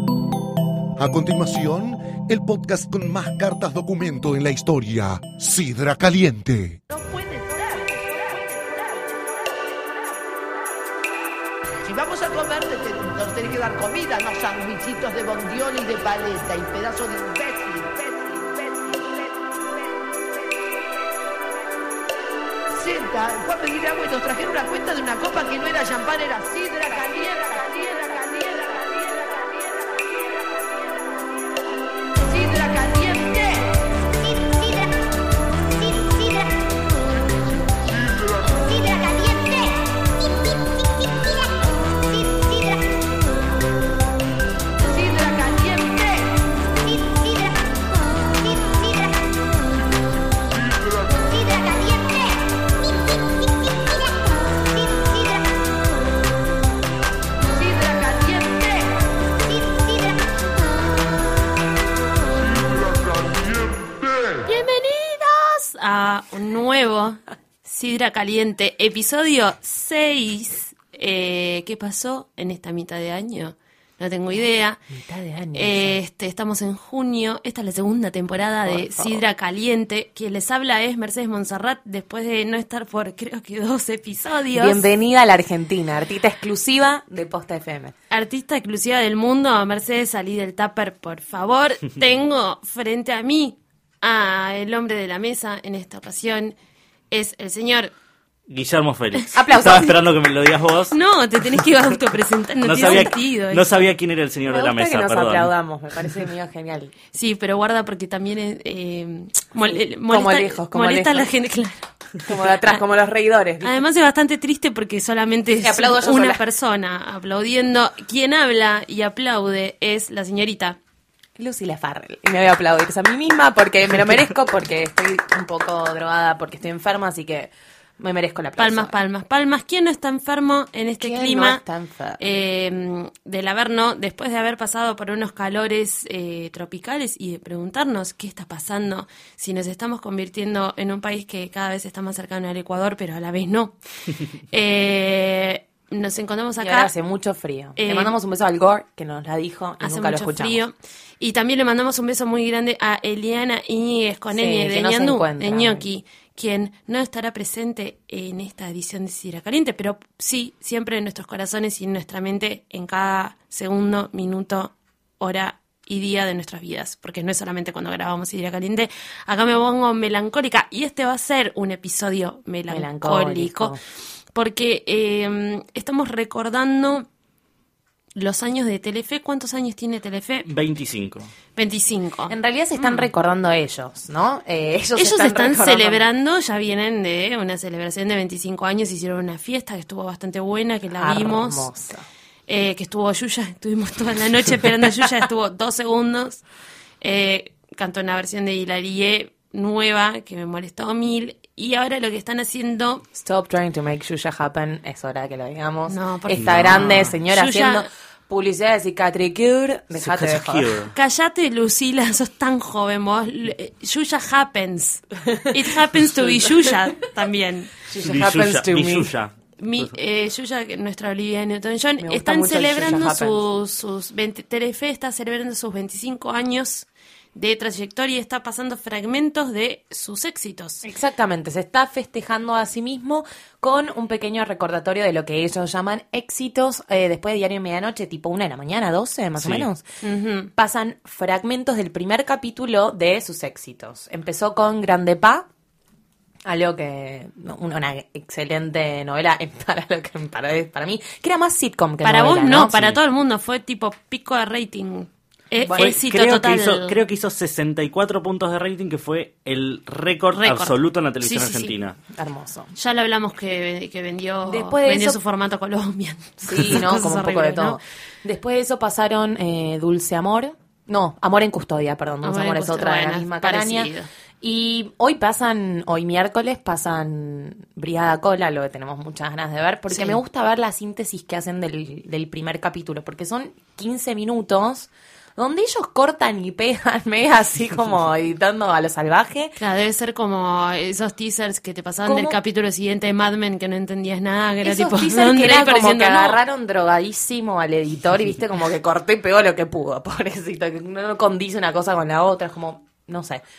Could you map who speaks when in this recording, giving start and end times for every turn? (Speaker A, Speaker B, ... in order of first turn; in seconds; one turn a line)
Speaker A: 1.0-6.8
Speaker B: 6.9-10.1
Speaker B: 11.8-19.5
Speaker B: 22.7-31.0
Speaker B: 32.2-33.8
Speaker B: 34.5-34.7
Speaker B: 38.6-39.2
Speaker B: 44.8-46.4
Speaker B: 57.4-59.0
Speaker C: 64.4-74.8
Speaker D: 74.9-76.0
Speaker C: 75.5-84.8
Speaker D: 78.7-79.2
Speaker D: 84.5-87.9
Speaker C: 88.1-96.5
Speaker C: 97.1-97.9
Speaker E: 98.5-101.0
Speaker D: 99.3-100.0
Speaker C: 100.9-103.7
Speaker E: 102.6-105.5
Speaker D: 102.8-103.1
Speaker D: 104.5-106.9
Speaker C: 107.1-111.8
Speaker D: 109.7-111.3
Speaker D: 112.2-113.8
Speaker C: 113.6-120.8
Speaker D: 115.6-116.4
Speaker D: 121.4-128.9
Speaker C: 128.6-131.6
Speaker D: 131.0-132.2
Speaker C: 132.2-143.8
Speaker C: 144.5-146.9
Speaker D: 146.6-150.6
Speaker C: 147.8-148.1
Speaker C: 149.8-173.8
Speaker D: 154.3-155.8
Speaker D: 172.7-173.8
Speaker C: 174.3-177.1
Speaker C: 178.2-180.5
Speaker E: 180.5-181.3
Speaker C: 181.6-183.1
Speaker D: 182.3-186.0
Speaker C: 185.0-191.7
Speaker D: 191.0-192.0
Speaker C: 192.5-196.4
Speaker C: 197.0-203.0
Speaker D: 203.2-210.8
Speaker C: 205.9-207.9
Speaker E: 206.3-207.2
Speaker E: 210.0-210.9
Speaker C: 210.9-217.7
Speaker D: 217.8-219.1
Speaker E: 218.0-219.9
Speaker C: 219.6-230.8
Speaker D: 222.0-223.4
Speaker D: 230.8-239.8
Speaker E: 239.4-239.7
Speaker C: 240.0-240.5
Speaker D: 240.6-245.5
Speaker D: 246.4-252.8
Speaker C: 252.0-257.0
Speaker E: 252.7-253.0
Speaker E: 255.7-262.0
Speaker C: 260.3-261.7
Speaker D: 262.1-262.7
Speaker C: 262.8-267.8
Speaker D: 264.5-265.2
Speaker D: 266.4-289.6
Speaker C: 272.2-274.1
Speaker C: 279.9-280.2
Speaker C: 289.6-296.4
Speaker D: 292.1-292.4
Speaker D: 294.6-303.4